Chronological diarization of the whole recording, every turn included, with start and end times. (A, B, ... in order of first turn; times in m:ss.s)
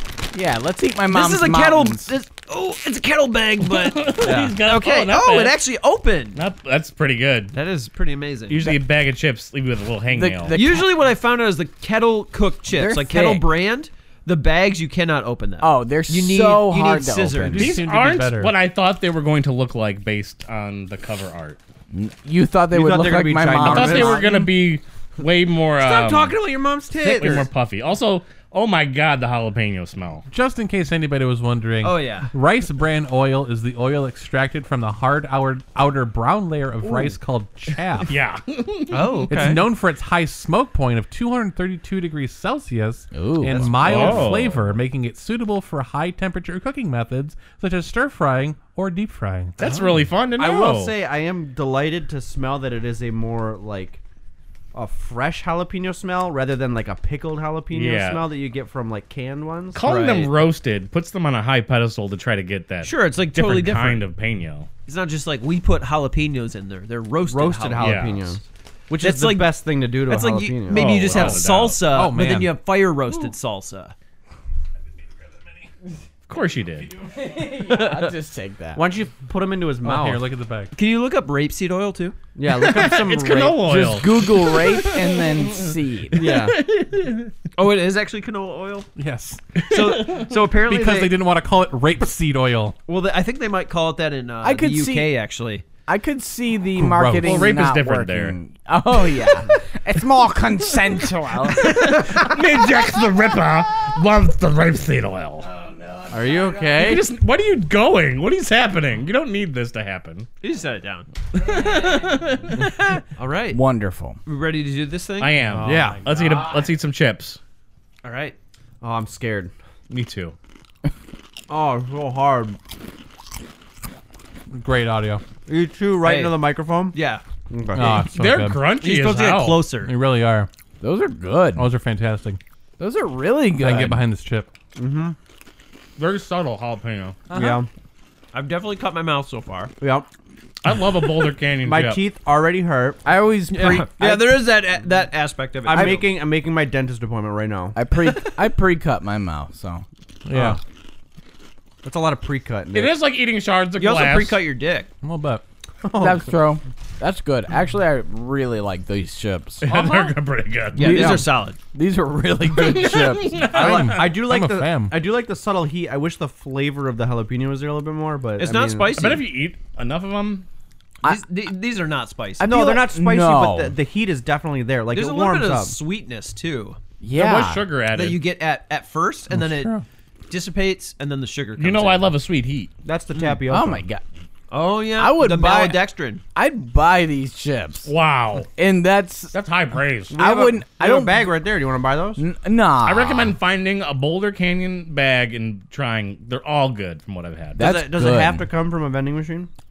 0:00.3-0:02.1 A
0:01.1-0:06.4 B
0:03.7-0:05.6 C
0:04.2-0:04.5 D
0:06.4-0:07.6 C
0:07.5-0:08.6 B
0:08.5-0:10.6 C
0:10.1-0:10.9 A
0:10.5-0:17.7 B
0:12.7-0:13.5 A
0:15.6-0:17.7 A
0:17.5-0:18.5 E
0:17.6-0:21.6 C
0:21.9-0:24.4 A
0:22.7-0:24.3 D
0:23.6-0:26.4 C
0:25.8-0:27.5 B
0:27.0-0:27.5 D
0:27.0-0:30.2 C
0:30.3-0:38.2 E
0:31.8-0:32.3 B
0:38.1-0:39.3 C
0:38.9-0:39.6 B
0:39.3-0:49.9 E
0:43.1-0:43.8 A
0:43.5-0:44.4 D
0:43.8-0:44.6 C
0:49.6-0:51.0 C
0:50.4-0:54.0 D
0:54.7-0:59.8 D
0:57.7-0:58.3 C
0:59.7-1:04.7 C
0:59.8-1:00.4 B
1:02.8-1:04.1 B
1:04.9-1:08.2 B
1:07.3-1:11.5 D
1:07.8-1:08.4 C
1:09.0-1:13.9 B
1:10.7-1:11.8 C
1:11.9-1:12.6 E
1:16.3-1:16.9 C
1:17.2-1:18.8 A
1:17.6-1:18.1 B
1:18.8-1:20.3 D
1:19.8-1:20.7 E
1:20.7-1:22.2 B
1:22.4-1:23.6 D
1:22.4-1:27.3 C
1:23.6-1:26.3 A
1:26.1-1:26.6 D
1:27.6-1:28.9 B
1:29.0-1:29.4 E
1:29.6-1:30.3 C
1:29.6-1:31.2 B
1:30.5-1:32.8 E
1:32.9-1:35.6 B
1:34.4-1:35.1 A
1:35.9-1:42.2 A
1:36.8-1:37.5 E
1:37.2-1:38.4 C
1:41.5-1:45.5 C
1:45.5-1:47.0 A
1:46.1-1:47.0 D
1:46.8-1:50.3 C
1:50.4-1:51.6 B
1:51.4-1:52.7 C
1:53.1-1:53.6 B
1:53.5-1:54.2 A
1:54.2-1:55.4 B
1:55.2-1:57.4 C
1:55.5-1:56.4 E
1:55.6-1:56.0 D
1:58.0-1:58.4 B
1:58.8-1:59.5 D
1:59.9-2:00.4 C
2:01.5-2:02.6 D
2:04.5-2:05.2 E
2:05.5-2:07.0 D
2:06.0-2:06.4 B
2:06.9-2:07.2 B
2:07.5-2:08.1 D
2:07.7-2:08.6 E
2:08.1-2:09.7 C
2:08.8-2:09.9 B
2:09.7-2:10.5 E
2:10.8-2:11.7 A
2:11.6-2:12.4 E
2:12.8-2:14.0 A
2:13.6-2:14.5 E
2:14.8-2:15.2 D
2:16.0-2:17.2 C
2:17.3-2:17.7 D
2:17.3-2:17.6 E
2:18.3-2:19.7 B
2:19.8-2:20.1 D
2:20.6-2:22.0 C
2:21.6-2:23.0 D
2:23.0-2:24.3 A
2:23.5-2:26.1 B
2:24.0-2:24.4 D
2:25.6-2:27.8 D
2:25.7-2:26.0 A
2:27.7-2:29.8 A
2:30.3-2:30.6 E
2:30.3-2:30.6 D
2:31.8-2:33.0 D
2:32.7-2:34.4 C
2:33.8-2:34.9 B
2:35.0-2:35.4 E
2:35.8-2:36.4 D
2:36.0-2:40.2 A
2:39.6-2:41.2 C
2:40.8-2:41.6 B
2:40.8-2:43.5 A
2:40.8-2:41.2 D
2:42.5-2:44.1 C
2:43.5-2:45.0 E
2:43.5-2:49.1 D
2:48.4-2:49.3 B
2:49.0-2:50.5 C
2:51.0-2:52.5 B
2:52.4-2:53.8 A
2:52.4-2:55.8 D
2:54.9-2:56.8 B
2:57.0-2:57.7 A
2:57.1-2:58.2 C
2:57.9-2:59.7 B
2:59.3-2:59.8 E
3:00.3-3:02.1 B
3:01.6-3:02.7 C
3:02.8-3:03.8 D
3:03.5-3:04.0 A
3:04.5-3:06.2 B
3:05.0-3:05.8 A
3:06.4-3:07.9 A
3:07.8-3:08.5 C
3:08.6-3:09.3 A
3:09.3-3:10.2 C
3:10.1-3:12.2 D
3:10.1-3:11.3 A
3:12.2-3:13.4 A
3:12.8-3:17.6 C
3:17.6-3:18.4 A
3:17.6-3:19.5 D